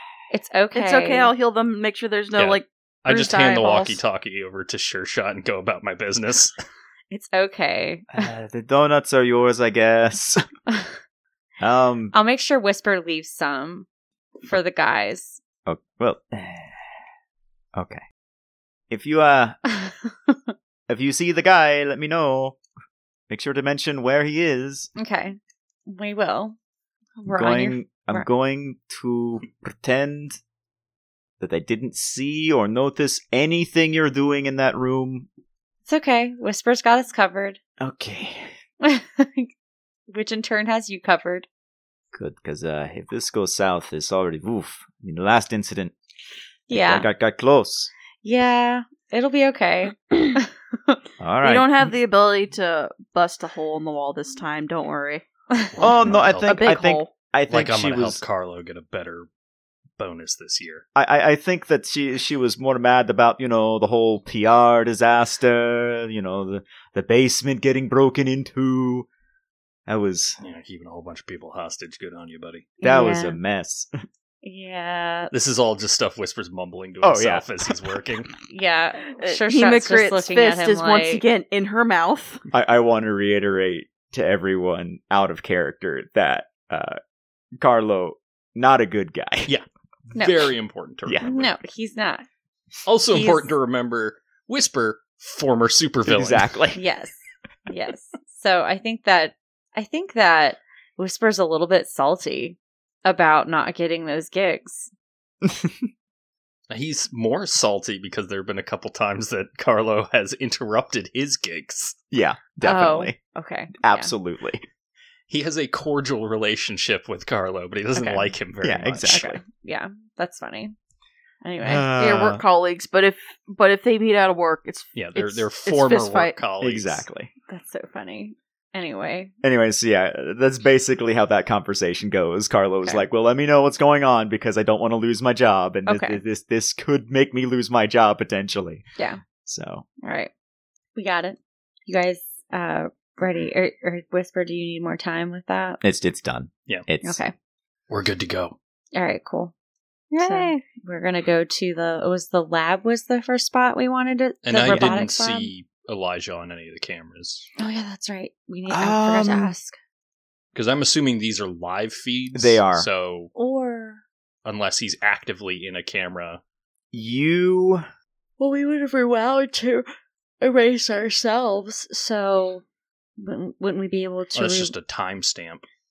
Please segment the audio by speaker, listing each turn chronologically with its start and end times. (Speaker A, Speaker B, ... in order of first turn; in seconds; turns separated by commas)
Speaker A: 0.3-1.3, Speaker B: 0.7-4.0, Speaker C: 2.4-6.5, Speaker A: 7.1-8.1, Speaker D: 8.1-10.4, Speaker D: 11.6-12.1, Speaker A: 12.1-13.9, Speaker A: 14.4-15.4, Speaker D: 15.7-16.9, Speaker D: 17.8-18.0, Speaker D: 18.9-19.6, Speaker A: 19.7-20.5, Speaker D: 20.9-22.6, Speaker D: 23.3-24.9, Speaker A: 24.9-26.6, Speaker A: 27.2-28.3, Speaker D: 27.2-30.4, Speaker D: 31.4-35.3, Speaker A: 35.9-37.6, Speaker D: 37.8-38.5, Speaker A: 38.8-39.5, Speaker A: 40.1-41.5, Speaker D: 42.1-45.9, Speaker A: 46.7-47.1, Speaker D: 46.7-47.9, Speaker A: 48.2-51.0, Speaker D: 51.2-51.9, Speaker B: 51.4-55.2, Speaker C: 55.8-56.6, Speaker D: 55.8-58.2, Speaker B: 56.0-57.1, Speaker C: 57.5-59.3, Speaker C: 60.0-60.9, Speaker D: 61.0-69.1, Speaker D: 69.9-70.4, Speaker C: 70.4-72.7, Speaker A: 72.8-73.4, Speaker D: 72.8-73.9, Speaker A: 74.4-75.3, Speaker C: 75.3-78.3, Speaker D: 77.0-78.0, Speaker A: 78.5-81.2, Speaker B: 79.2-82.4, Speaker D: 82.5-87.0, Speaker D: 87.6-89.5, Speaker C: 89.5-91.5, Speaker A: 90.2-90.4, Speaker D: 91.0-91.3, Speaker A: 91.2-92.2, Speaker C: 92.8-96.5, Speaker A: 93.1-93.5, Speaker D: 96.1-96.8, Speaker A: 96.7-104.9, Speaker D: 105.4-105.9, Speaker C: 106.7-112.0, Speaker D: 112.1-113.2, Speaker A: 112.6-114.1, Speaker D: 113.8-114.6, Speaker C: 115.3-119.2, Speaker A: 118.0-118.3, Speaker D: 118.6-119.4, Speaker A: 119.0-120.8, Speaker A: 121.4-121.9, Speaker D: 121.6-122.4, Speaker B: 122.0-126.4, Speaker C: 125.0-127.0, Speaker D: 126.6-127.3, Speaker A: 127.5-129.3, Speaker D: 129.4-138.8, Speaker A: 135.8-136.2, Speaker D: 139.4-139.8, Speaker A: 140.0-140.3, Speaker A: 140.9-145.8, Speaker D: 145.8-147.2, Speaker A: 147.0-147.3, Speaker C: 147.9-148.6, Speaker A: 148.9-149.5, Speaker A: 150.1-155.5, Speaker B: 150.2-150.6, Speaker C: 154.4-157.5, Speaker D: 154.7-155.0, Speaker A: 157.6-159.8, Speaker D: 158.7-159.5, Speaker C: 160.5-163.3, Speaker D: 162.3-162.9, Speaker A: 163.3-164.0, Speaker C: 164.4-166.4, Speaker D: 166.9-167.8, Speaker A: 168.4-169.8, Speaker A: 170.4-172.6, Speaker A: 173.2-174.7, Speaker C: 174.3-175.7